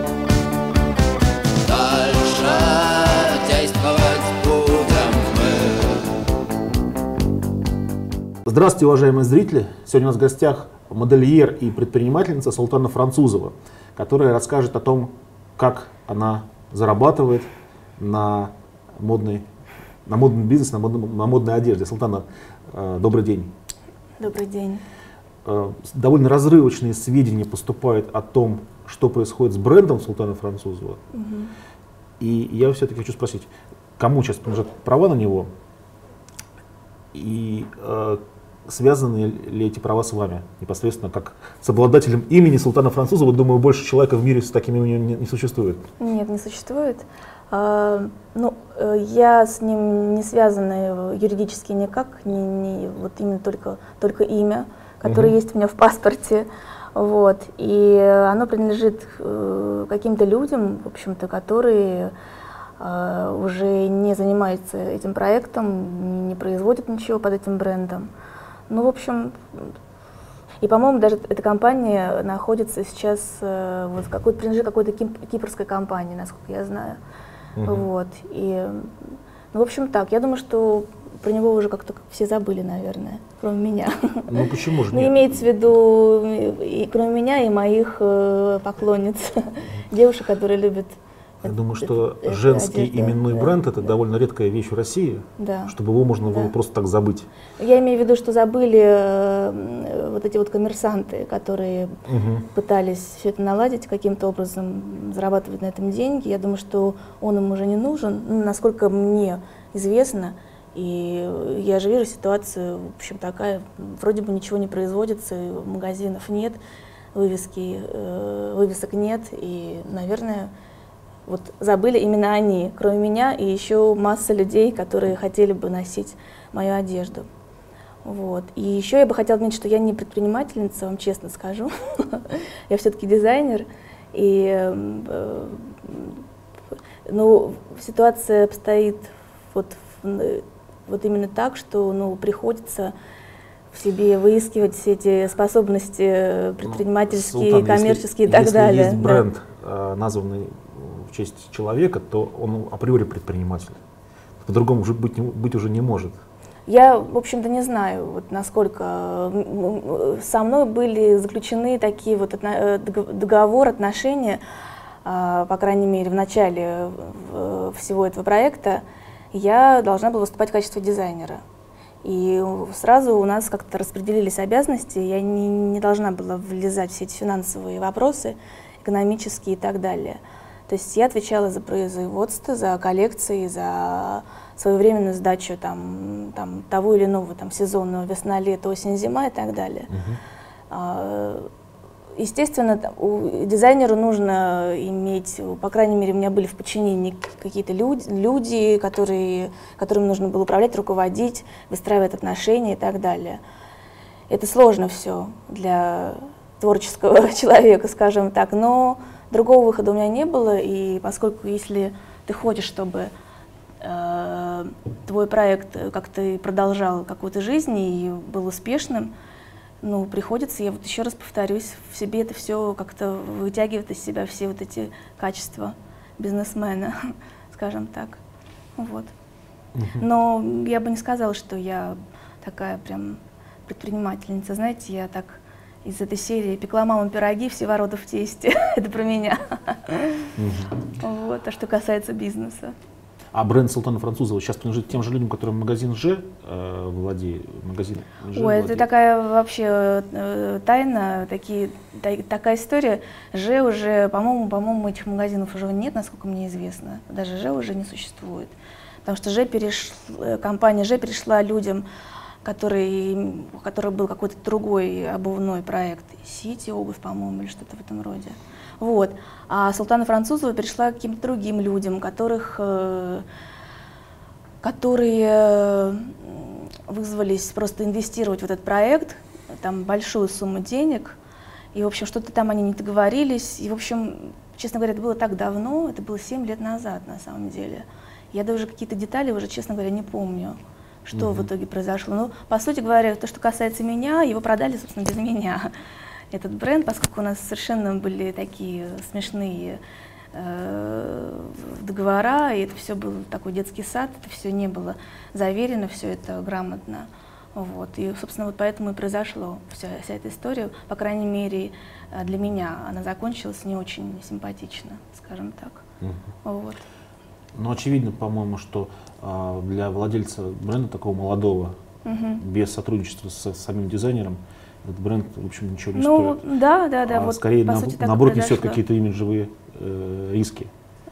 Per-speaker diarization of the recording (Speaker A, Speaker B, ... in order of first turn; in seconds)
Speaker A: 1.6-6.2
Speaker B: 8.4-19.4, 20.1-23.5, 25.4-31.0, 32.2-35.5, 37.1-45.8, 55.0-55.3, 77.5-77.9, 84.3-85.5, 91.4-97.3, 102.0-102.5, 146.6-153.8, 154.4-156.2, 189.9-190.2, 229.7-230.0, 240.4-240.8, 243.3-248.9, 291.1-291.5, 317.6-321.8, 322.4-326.4, 327.1-330.7
Speaker C: 24.2-24.8, 31.1-31.5, 46.0-62.1, 62.8-68.1, 68.7-69.7, 70.6-77.0, 77.6-78.9, 79.5-84.3, 84.9-93.6, 95.4-95.7, 96.3-96.5, 97.6-102.0, 102.5-116.6, 117.1-120.5, 121.3-127.3, 128.0-136.2, 137.1-142.9, 143.7-149.2, 156.7-164.4, 165.0-171.4, 172.0-189.9, 190.7-191.5, 192.2-203.4, 204.3-213.1, 213.8-219.1, 219.8-228.2, 228.8-229.1, 230.0-240.3, 240.9-242.7, 248.3-261.9, 262.4-273.2, 274.6-281.2, 281.7-295.7, 296.3-299.8, 300.3-315.8, 316.4-316.8, 322.0-322.4, 325.9-328.8